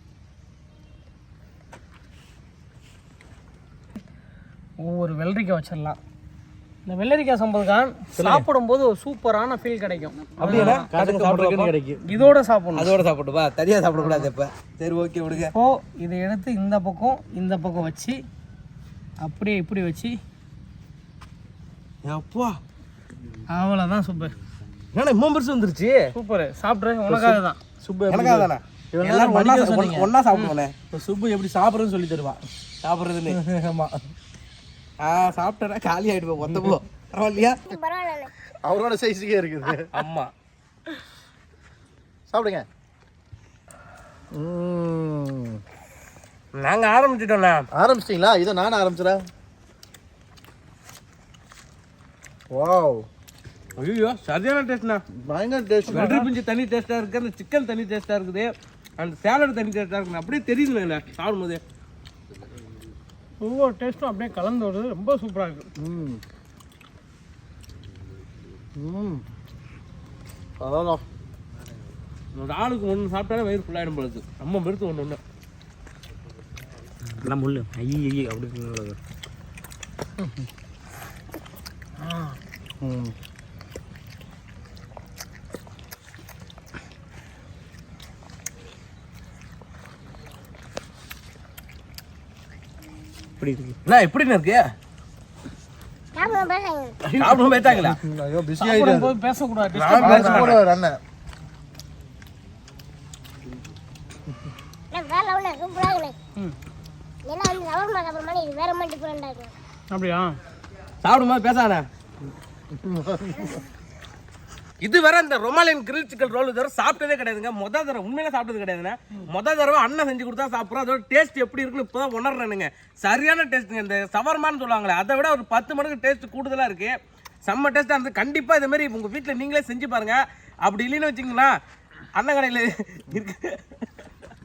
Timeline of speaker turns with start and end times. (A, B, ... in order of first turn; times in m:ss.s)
0:04.8-0:06.0 A
0:06.9-0:10.9 A
0:08.1-0:08.5 B
0:10.4-0:11.7 B
0:10.4-0:12.0 C
0:12.0-0:12.9 A
0:12.8-0:15.5 B
0:14.0-0:14.3 A
0:15.5-0:18.2 A
0:19.2-0:20.1 A
0:22.0-0:22.6 B
0:23.5-0:24.3 A
0:24.9-0:26.0 B
0:26.1-0:27.6 A
0:27.1-0:30.1 C
0:28.1-0:33.4 B
0:33.3-0:34.0 C
0:35.0-0:37.6 B
0:37.7-0:38.3 D
0:38.6-0:39.9 C
0:39.9-0:40.3 B
0:42.3-0:42.7 C
0:44.3-0:45.6 C
0:46.6-0:47.6 B
0:47.7-0:49.2 C
0:52.5-0:53.1 C
0:53.8-0:55.0 B
0:55.1-0:56.2 C
0:55.9-0:56.3 A
0:55.9-1:01.6 B
1:03.4-1:05.7 A
1:05.8-1:06.2 C
1:08.8-1:09.2 C
1:10.6-1:11.0 C
1:12.4-1:15.2 B
1:17.2-1:19.0 E
1:22.0-1:22.4 A
1:22.8-1:23.1 C
1:33.4-1:33.8 E
1:33.8-1:34.6 B
1:36.1-1:37.0 D
1:37.1-1:38.0 B
1:37.2-1:39.1 C
1:38.6-1:40.6 A
1:39.8-1:40.6 B
1:40.0-1:41.0 C
1:44.9-1:46.2 D
1:47.2-1:49.5 D
1:49.9-1:50.4 A
1:51.0-1:51.8 B
1:52.7-1:53.6 C
1:54.8-2:11.5 B
2:12.1-2:13.9 B